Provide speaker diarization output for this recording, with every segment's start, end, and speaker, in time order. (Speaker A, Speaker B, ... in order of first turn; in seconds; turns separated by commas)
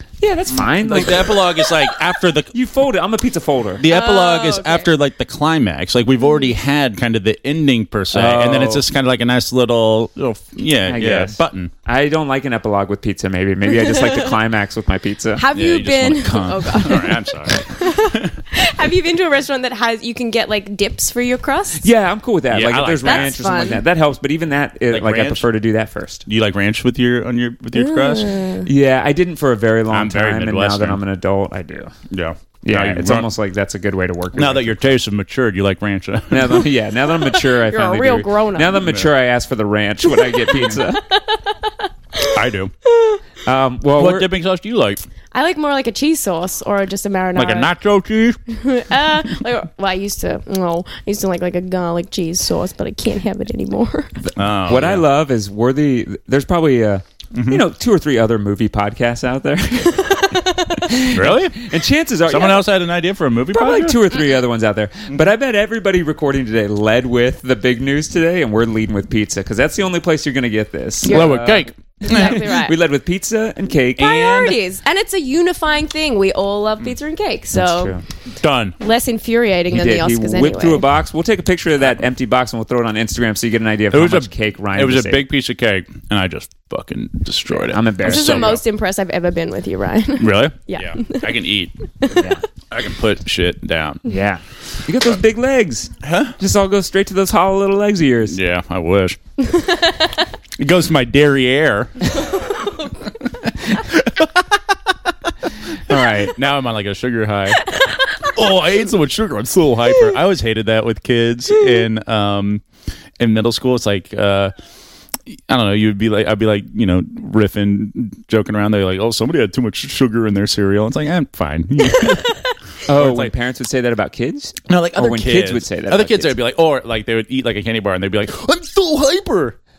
Speaker A: 0.2-1.4, Speaker B: 0.8-2.5, Speaker A: 2.5-3.9, Speaker B: 3.8-11.7, Speaker C: 3.9-4.9, Speaker A: 8.1-8.8, Speaker A: 10.9-15.5, Speaker C: 13.7-14.2, Speaker C: 15.4-21.8, Speaker B: 15.5-18.4, Speaker A: 21.8-26.3, Speaker B: 22.5-23.4, Speaker C: 23.0-23.8, Speaker B: 24.9-25.5, Speaker B: 26.3-28.4, Speaker C: 27.8-28.7, Speaker A: 28.7-31.9, Speaker B: 29.9-31.0, Speaker B: 32.1-33.3, Speaker A: 32.6-34.8, Speaker B: 34.4-36.7, Speaker A: 36.3-41.0, Speaker C: 37.3-38.8, Speaker B: 38.8-39.1, Speaker C: 40.2-43.2, Speaker B: 42.2-42.7, Speaker A: 43.5-44.3, Speaker B: 43.9-45.0, Speaker C: 45.3-47.7, Speaker B: 47.4-48.4, Speaker C: 48.5-54.3, Speaker B: 54.4-55.0, Speaker A: 54.7-62.6, Speaker B: 57.3-57.6, Speaker B: 61.1-61.6, Speaker B: 62.3-64.0, Speaker A: 63.5-74.2, Speaker B: 71.0-72.4, Speaker C: 71.1-72.8, Speaker C: 74.0-77.9, Speaker B: 74.0-74.6, Speaker A: 77.5-78.0, Speaker B: 78.4-78.8, Speaker C: 78.8-80.8, Speaker A: 79.7-85.2, Speaker B: 83.9-88.6, Speaker A: 87.6-88.4, Speaker C: 88.1-91.3, Speaker B: 90.2-91.8, Speaker C: 92.0-92.3, Speaker A: 92.2-92.4, Speaker B: 92.7-94.1, Speaker A: 94.0-98.4, Speaker B: 96.0-96.4, Speaker B: 98.3-99.2, Speaker C: 99.4-100.2, Speaker B: 100.6-102.4, Speaker C: 102.3-102.9, Speaker B: 103.3-104.5, Speaker A: 105.9-106.4, Speaker B: 105.9-107.6, Speaker C: 107.6-108.3, Speaker B: 108.2-112.6, Speaker C: 111.5-111.8, Speaker B: 113.2-114.5, Speaker B: 115.3-123.3, Speaker A: 122.9-126.3, Speaker B: 124.7-129.6